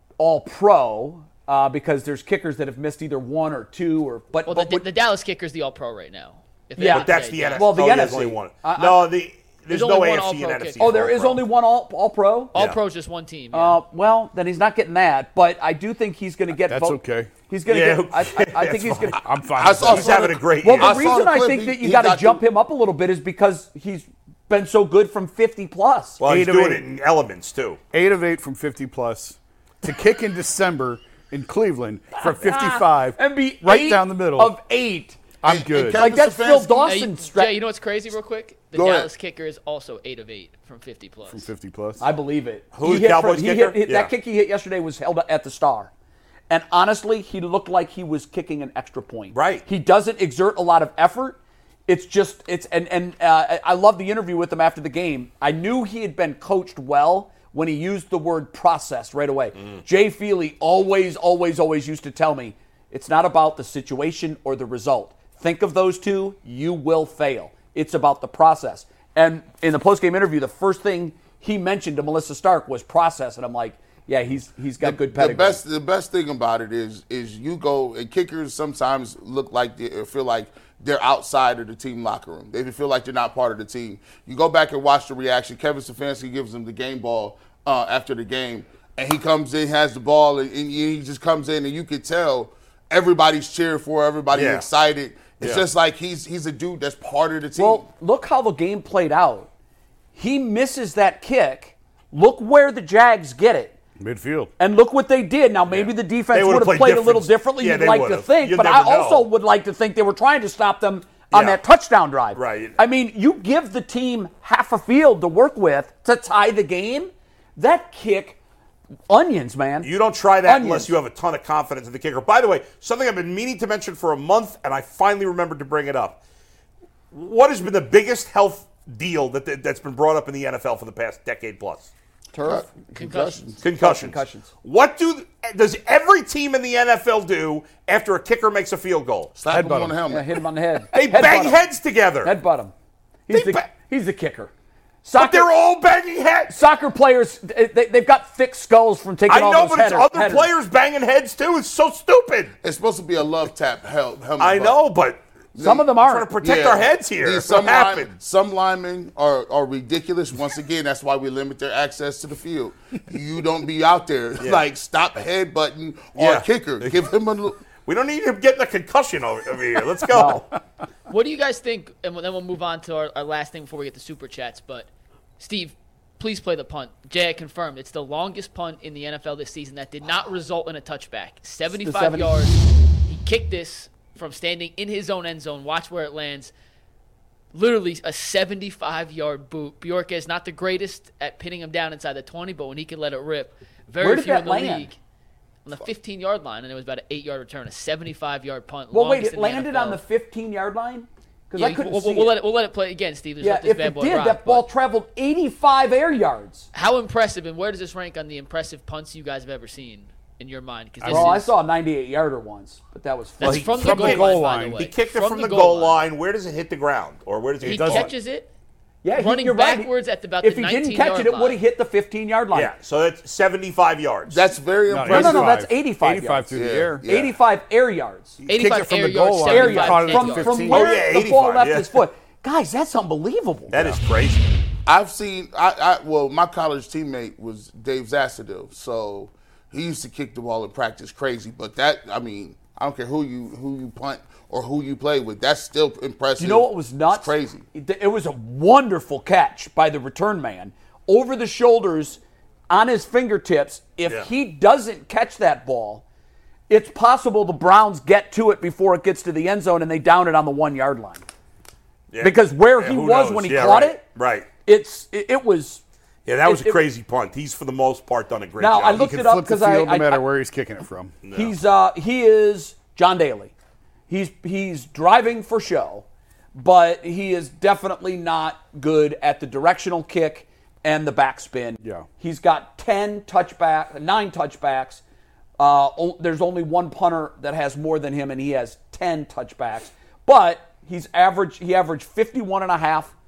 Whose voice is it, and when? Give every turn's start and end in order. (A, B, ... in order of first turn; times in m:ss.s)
0:00.2-0:04.8 A
0:04.5-0:07.8 B
0:06.8-0:09.1 A
0:06.8-0:11.5 C
0:09.7-0:11.1 B
0:10.8-0:12.6 A
0:12.5-0:13.8 B
0:13.5-0:19.2 A
0:16.7-0:17.3 D
0:17.7-0:19.2 C
0:19.2-0:20.2 D
0:19.6-0:22.4 E
0:19.8-0:21.1 C
0:20.6-0:26.8 A
0:26.2-0:27.8 C
0:27.9-0:34.6 D
0:32.2-0:35.2 A
0:35.4-0:36.0 D
0:35.4-0:36.9 E
0:35.8-0:37.6 A
0:36.9-0:41.5 B
0:38.7-0:39.1 E
0:41.3-0:42.0 D
0:42.0-0:45.9 A
0:42.7-0:44.1 C
0:46.5-1:15.6 A
0:49.3-0:49.6 C
1:14.8-1:37.9 E
1:34.3-1:34.7 C
1:35.4-1:35.6 C
1:37.6-1:39.5 A
1:40.2-1:43.8 A
1:44.0-1:44.5 D
1:44.6-1:58.4 A
1:45.7-1:49.3 C
1:51.3-1:51.6 C
1:52.3-1:52.8 C
1:59.1-1:59.9 A
1:59.8-2:06.2 C
2:00.4-2:00.9 A
2:07.1-2:11.9 C
2:12.3-2:12.7 A
2:12.4-2:13.6 E
2:13.0-2:13.4 B
2:13.6-2:19.4 C
2:13.6-2:14.5 A
2:19.4-2:20.4 E
2:19.5-2:20.0 D
2:20.1-2:21.6 A
2:20.9-2:22.3 C
2:22.2-2:22.7 A
2:23.3-2:24.5 A
2:23.3-2:23.6 C
2:25.0-2:25.5 A
2:25.2-2:26.6 C
2:26.5-2:30.5 A
2:29.3-2:32.5 C
2:32.6-2:34.8 E
2:34.4-2:35.2 C
2:35.5-2:47.6 E
2:35.6-2:36.3 A
2:36.0-2:38.1 C
2:46.2-2:47.0 C
2:47.8-2:50.4 C
2:50.1-2:50.5 A
2:51.1-3:06.5 B
3:01.7-3:02.4 A
3:07.5-3:15.0 B
3:14.0-3:14.9 A
3:15.6-3:20.0 B
3:18.9-3:22.3 A
3:21.6-3:24.7 B
3:23.4-3:26.7 A
3:26.7-3:31.5 B
3:31.0-3:31.4 D
3:31.1-3:33.8 A
3:33.4-3:36.0 B
3:33.4-3:34.9 D
3:33.5-3:38.1 C
3:37.6-3:38.5 B
3:37.6-3:38.1 D
3:39.0-3:42.7 A
3:39.1-3:41.6 B
3:42.5-3:44.4 C
3:44.3-3:45.5 E
3:44.9-3:47.0 D
3:45.1-3:48.4 A
3:46.5-3:47.3 E
3:48.4-3:51.0 D
3:48.5-3:50.7 B
3:49.5-3:53.8 A
3:50.7-3:52.0 C
3:53.7-3:54.4 C
3:54.9-4:07.6 E
4:06.4-4:16.0 A
4:16.7-4:21.2 A
4:22.1-4:24.5 C
4:22.2-4:24.0 A
4:24.6-4:25.8 A
4:26.3-4:29.1 C
4:26.4-4:26.8 A
4:28.6-4:30.3 A
4:28.9-4:31.2 D
4:31.2-4:31.6 C
4:31.3-4:33.5 A
4:34.1-4:45.0 A
4:45.6-4:53.1 A